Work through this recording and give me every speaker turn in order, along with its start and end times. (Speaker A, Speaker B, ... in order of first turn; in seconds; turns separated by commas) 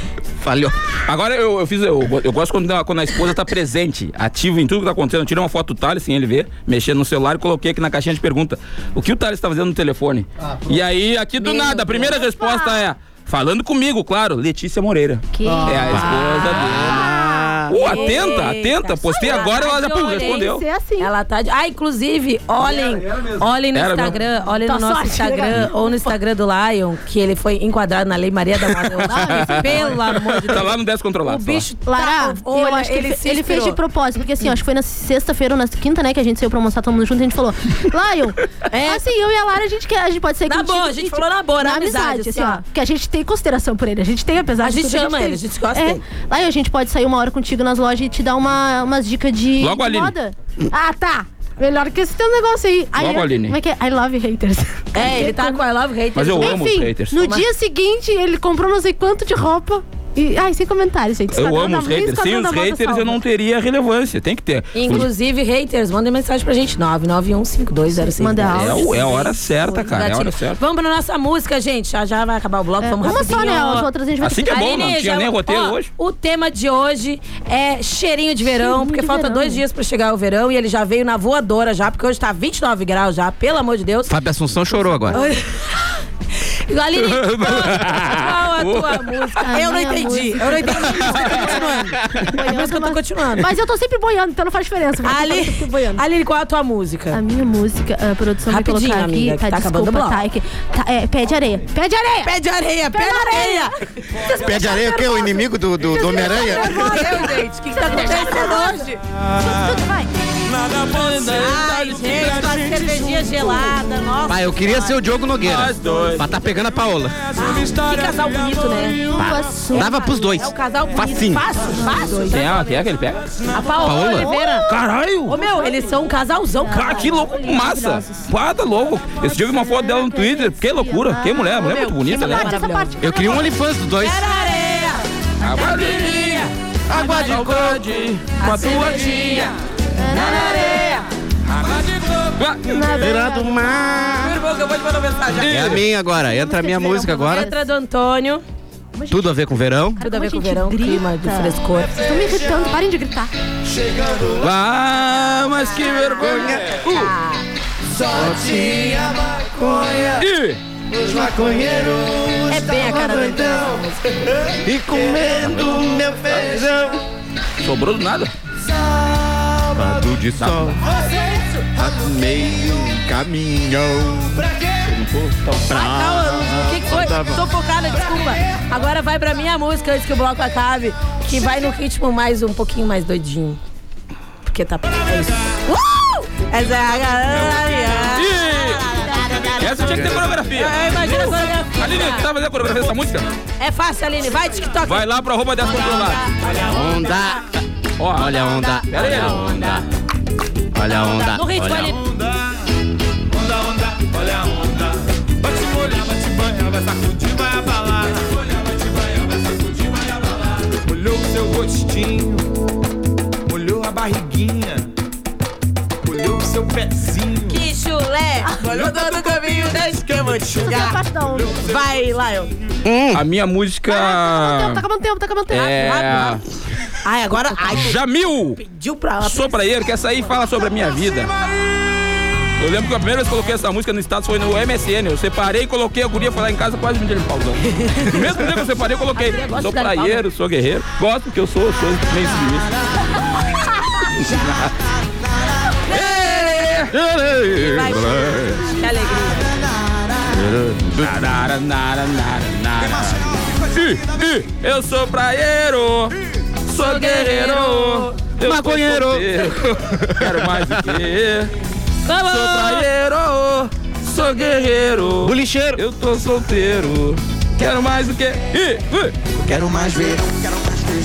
Speaker A: 0.4-0.8, Speaker B: 1.1-17.1, Speaker C: 10.4-10.8, Speaker D: 11.4-12.2, Speaker E: 12.1-12.8, Speaker E: 15.3-18.3, Speaker A: 15.9-17.7, Speaker B: 17.7-20.6, Speaker D: 17.7-20.5, Speaker E: 19.1-21.1, Speaker D: 21.0-33.8, Speaker C: 22.6-23.6, Speaker B: 23.7-24.2, Speaker E: 24.6-26.1, Speaker E: 29.0-29.9, Speaker B: 29.1-31.7, Speaker E: 31.9-55.6, Speaker D: 38.7-39.0, Speaker D: 40.5-42.6, Speaker D: 44.6-46.0, Speaker B: 49.6-50.1, Speaker B: 53.0-53.6, Speaker D: 55.0-56.6, Speaker B: 56.1-57.1, Speaker E: 56.4-63.2, Speaker D: 57.1-57.5, Speaker B: 61.3-65.1, Speaker D: 64.7-68.9, Speaker E: 68.0-69.9, Speaker B: 68.5-70.6, Speaker D: 69.8-73.9, Speaker E: 72.8-74.7, Speaker B: 74.2-75.9, Speaker D: 74.5-84.2, Speaker E: 78.5-79.6, Speaker A: 84.1-85.2, Speaker D: 85.1-85.8, Speaker D: 86.7-93.5, Speaker B: 87.0-89.4, Speaker E: 89.4-96.0, Speaker B: 91.2-91.5, Speaker D: 95.0-97.2, Speaker E: 97.1-102.3, Speaker D: 98.5-100.2, Speaker D: 102.2-103.7, Speaker E: 102.9-103.7, Speaker E: 104.2-108.9, Speaker A: 104.3-107.1, Speaker D: 106.2-109.0, Speaker E: 109.4-110.1, Speaker B: 110.7-112.7, Speaker D: 110.8-115.0, Speaker A: 114.3-117.2, Speaker B: 115.4-116.2, Speaker D: 117.4-119.1, Speaker E: 119.1-120.4, Speaker A: 119.2-121.4, Speaker D: 119.7-122.7, Speaker E: 121.8-122.3, Speaker B: 122.3-123.3, Speaker D: 123.5-124.7, Speaker E: 123.7-124.7, Speaker A: 123.8-124.3, Speaker B: 124.7-125.3, Speaker D: 125.3-127.0, Speaker E: 125.3-126.0, Speaker E: 126.6-128.3, Speaker B: 126.7-132.6, Speaker E: 129.2-133.5, Speaker D: 131.6-133.0, Speaker A: 133.0-134.2, Speaker D: 134.0-136.5, Speaker B: 135.4-139.5, Speaker A: 136.9-137.9, Speaker D: 138.4-139.5, Speaker E: 140.0-141.0, Speaker D: 140.1-141.1, Speaker B: 142.4-142.9, Speaker E: 142.7-143.8, Speaker A: 143.0-144.4, Speaker D: 144.2-145.8, Speaker B: 145.3-145.8, Speaker A: 145.4-147.5, Speaker E: 146.0-147.7, Speaker D: 147.2-148.4, Speaker E: 149.0-149.3, Speaker A: 149.1-150.0, Speaker E: 150.0-153.3, Speaker D: 150.0-152.0, Speaker B: 154.4-157.1, Speaker A: 156.2-156.8, Speaker D: 156.2-157.5, Speaker A: 158.0-160.2, Speaker B: 160.2-160.6, Speaker A: 161.0-163.7, Speaker D: 162.5-164.0, Speaker A: 164.6-167.0, Speaker B: 165.5-165.8, Speaker B: 167.6-168.3, Speaker A: 169.7-170.8, Speaker B: 170.4-170.8, Speaker A: 171.8-174.5, Speaker B: 174.8-175.7, Speaker A: 175.7-177.4, Speaker D: 175.7-183.6, Speaker D: 184.5-192.3, Speaker B: 188.1-188.8, Speaker B: 189.6-193.3, Speaker D: 193.6-197.4, Speaker B: 194.8-196.2, Speaker A: 196.6-197.5, Speaker B: 198.0-199.6, Speaker A: 198.0-199.8, Speaker D: 198.3-199.8, Speaker A: 200.7-202.0, Speaker D: 201.1-202.0, Speaker C: 201.9-202.4, Speaker C: 203.3-212.5, Speaker C: 213.5-214.9, Speaker C: 216.0-217.6, Speaker D: 217.5-221.0, Speaker C: 218.7-220.6, Speaker E: 220.5-221.7, Speaker C: 221.2-221.9, Speaker D: 221.5-222.5, Speaker A: 222.8-223.2, Speaker B: 223.1-224.8, Speaker E: 223.9-226.2, Speaker B: 225.5-226.4, Speaker D: 225.8-226.4, Speaker D: 227.0-228.0, Speaker B: 227.7-228.6, Speaker D: 228.6-229.6, Speaker B: 229.2-231.3, Speaker B: 232.6-242.8, Speaker D: 237.8-238.4, Speaker D: 239.1-240.2, Speaker B: 244.1-244.8, Speaker B: 245.9-247.0, Speaker D: 245.9-246.7, Speaker A: 246.9-248.6, Speaker D: 247.5-249.5, Speaker A: 250.3-251.2, Speaker B: 251.0-256.1, Speaker B: 256.7-261.5, Speaker D: 256.8-258.1, Speaker A: 258.4-260.7, Speaker D: 262.1-262.9, Speaker B: 262.2-269.2, Speaker A: 265.2-265.8, Speaker A: 269.4-270.3